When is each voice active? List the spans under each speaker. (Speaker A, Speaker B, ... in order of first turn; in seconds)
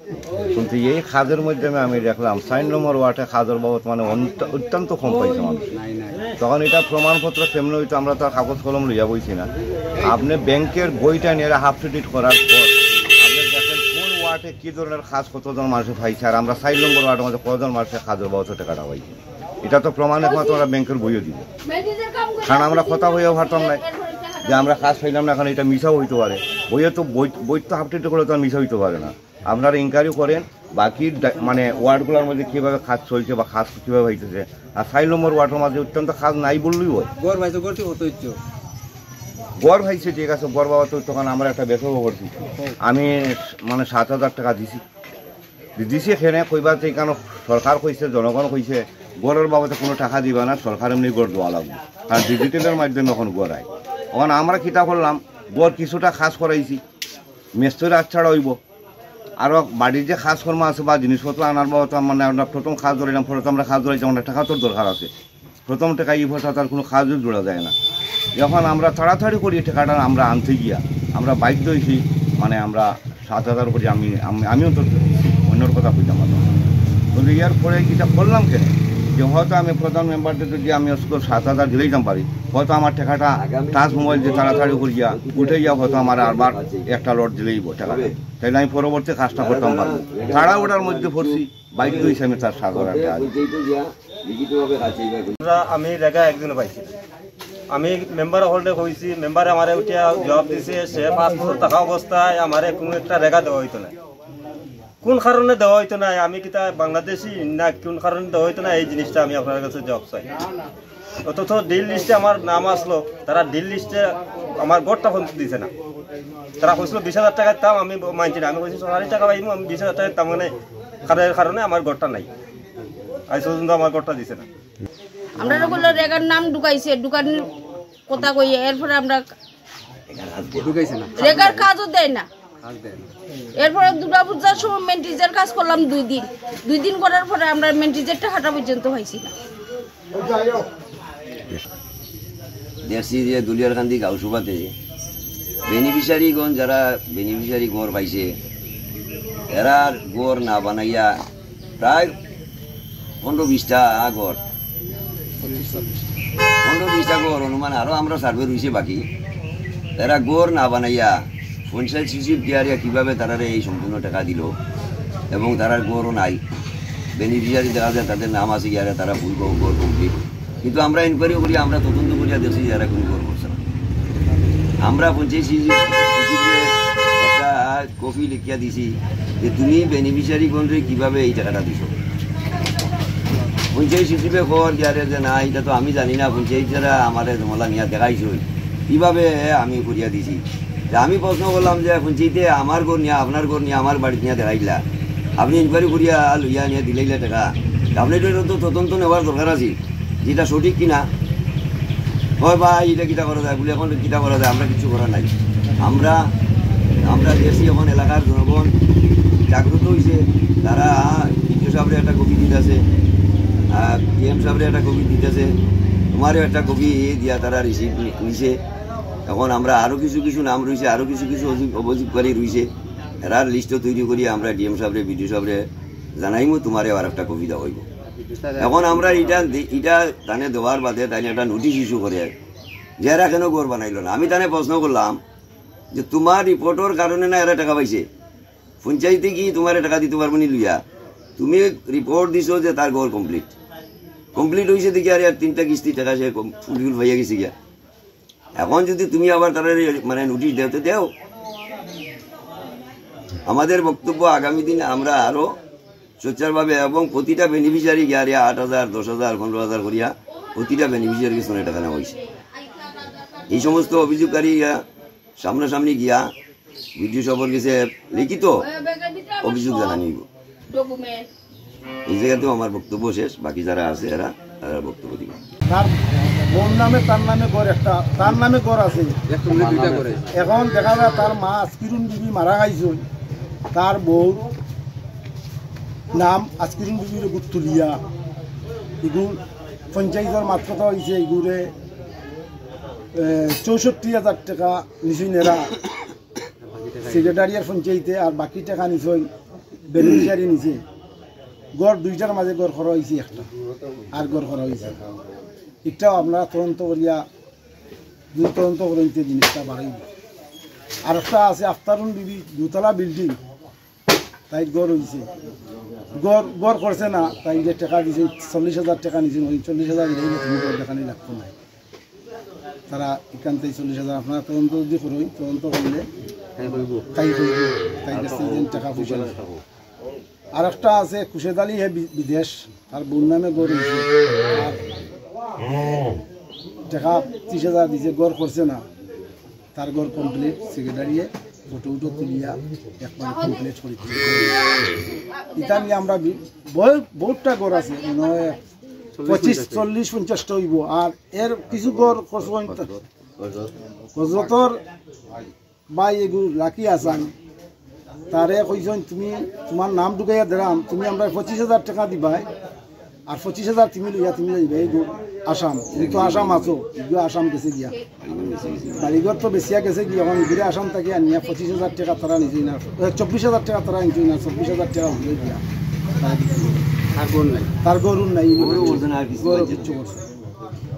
Speaker A: 0.5-5.7, 6.4-9.5, 10.0-21.4, 22.4-23.9, 24.4-37.1, 39.6-44.8, 45.8-56.8, 57.5-58.6, 59.4-65.1, 65.7-67.7, 68.4-76.5, 77.1-93.4
Speaker B: 5.8-6.2, 37.2-38.4, 130.6-131.6, 132.6-133.1, 228.2-229.3, 279.3-280.4, 296.6-297.4, 326.6-327.1, 328.1-329.6, 349.2-349.9, 377.1-377.7
Speaker C: 20.2-20.6, 21.7-24.9, 125.4-127.5, 128.1-129.3, 131.1-132.3, 133.6-139.3, 262.4-263.4, 268.6-270.0, 270.7-271.3, 345.6-345.9
Speaker D: 83.4-87.0, 87.8-88.2, 89.4-92.2, 92.7-95.4, 130.1-131.7, 142.9-144.7, 145.7-148.3, 149.5-151.2, 151.8-152.2, 153.2-154.4, 156.6-159.1, 160.0-161.1, 161.7-164.5, 165.3-166.4, 167.2-173.6, 174.8-181.9, 183.7-194.8, 195.4-201.1, 202.4-206.2, 207.0-208.7, 209.5-212.8, 213.7-215.6, 216.1-218.6, 219.3-222.7, 223.2-227.9, 228.6-232.3, 233.0-235.2, 235.9-238.1, 238.8-240.8, 241.4-243.5, 244.3-247.5, 248.6-251.1, 253.5-255.6, 256.2-262.1, 263.5-264.8, 265.4-266.3, 267.0-268.7, 269.4-270.3, 272.1-275.4, 365.9-366.8, 368.2-369.2, 378.6-380.0
Speaker E: 95.4-96.9, 97.7-103.9, 105.0-110.3, 111.2-115.7, 116.6-120.5, 121.0-122.3, 123.3-124.5
Speaker F: 155.4-156.2, 275.7-279.1, 280.3-283.1, 283.7-284.5, 286.1-288.0, 289.0-289.4, 289.9-291.7, 293.1-295.8, 297.0-299.3, 299.9-300.8, 301.8-303.5, 304.1-305.0, 305.9-307.2, 308.3-310.1, 311.1-313.4, 314.5-315.3, 316.1-321.5, 322.9-326.1, 327.1-329.4, 330.5-334.8, 336.9-338.8, 339.8-344.7, 345.6-348.6, 349.2-353.0, 354.1-354.8, 355.9-357.3, 358.3-362.5, 363.3-368.0, 369.0-375.6, 376.2-376.9, 377.8-380.2